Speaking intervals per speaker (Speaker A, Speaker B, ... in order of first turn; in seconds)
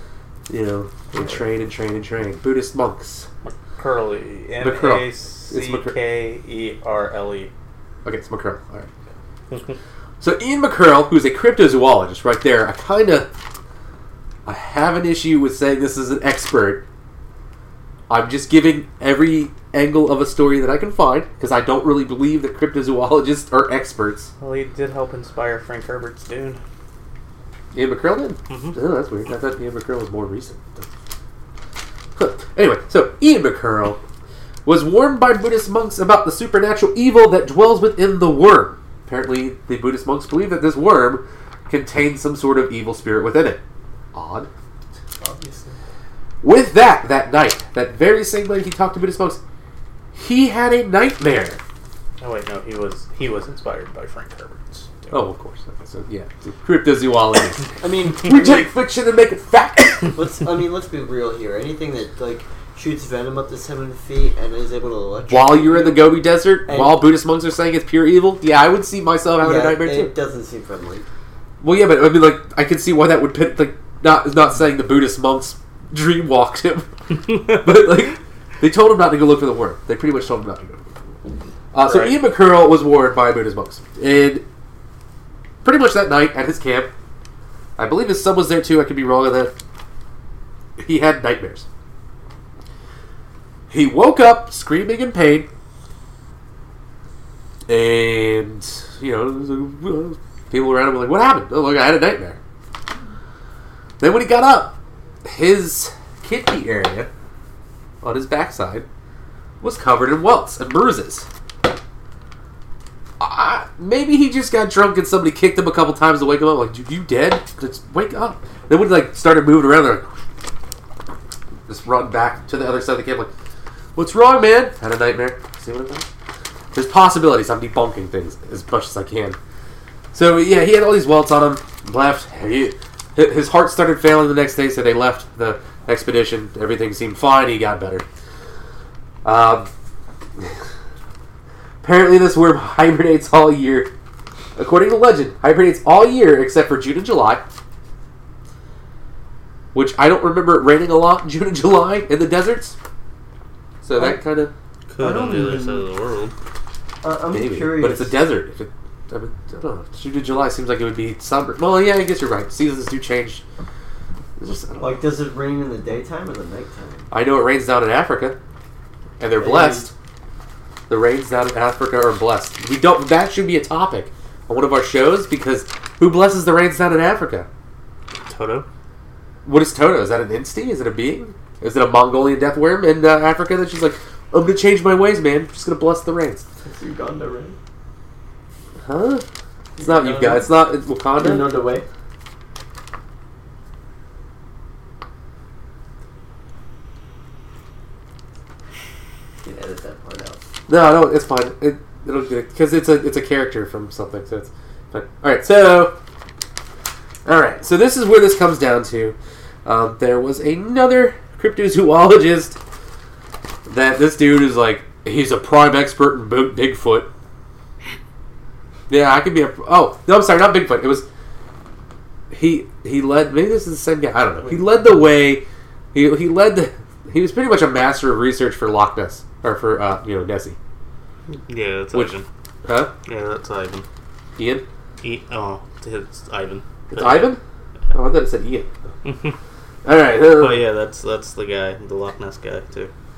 Speaker A: 0.5-3.3, 4.6-6.0, 8.0-8.9, 10.2-13.3, 14.4-16.8, 18.1-24.3, 27.7-30.9, 32.2-34.0, 34.6-43.6, 44.1-44.5, 46.4-49.4, 50.1-51.6, 55.1-60.2, 65.3-70.1, 71.6-80.8, 81.7-84.4, 85.6-86.9, 87.8-89.5, 90.8-91.7, 93.7-95.5, 97.7-102.4, 104.0-107.1, 108.0-108.8, 109.6-111.3, 113.2-120.1, 121.7-123.3, 124.0-126.1, 126.7-129.4, 130.1-138.0, 139.2-139.7, 140.4-140.7, 141.8-143.9, 144.6-147.4, 149.7-152.8, 153.8-155.7, 157.3-163.4, 164.4-165.0, 167.1-168.4, 169.2-169.9, 170.9-177.5, 179.4-186.4, 188.8-189.2, 189.8-191.5, 200.7-205.9, 207.2-212.6, 213.7-217.1, 218.9-221.1, 222.3-230.6, 232.6-232.9, 234.4-234.7, 236.9-237.4, 237.9-238.7, 239.8-240.6
Speaker B: 3.4-7.5, 9.5-9.8, 24.4-26.6, 28.5-28.8, 52.2-55.1, 81.8-82.2, 154.9-156.3, 178.2-178.7, 231.5-232.2, 233.0-233.8, 235.0-237.3, 239.0-239.3, 240.2-242.9
Speaker C: 45.2-45.8, 57.8-58.7, 60.1-66.1, 66.6-67.0, 69.4-71.0, 157.0-158.2, 164.8-167.1, 169.4-169.9, 186.6-187.6, 189.8-190.5, 191.1-191.8, 199.4-200.4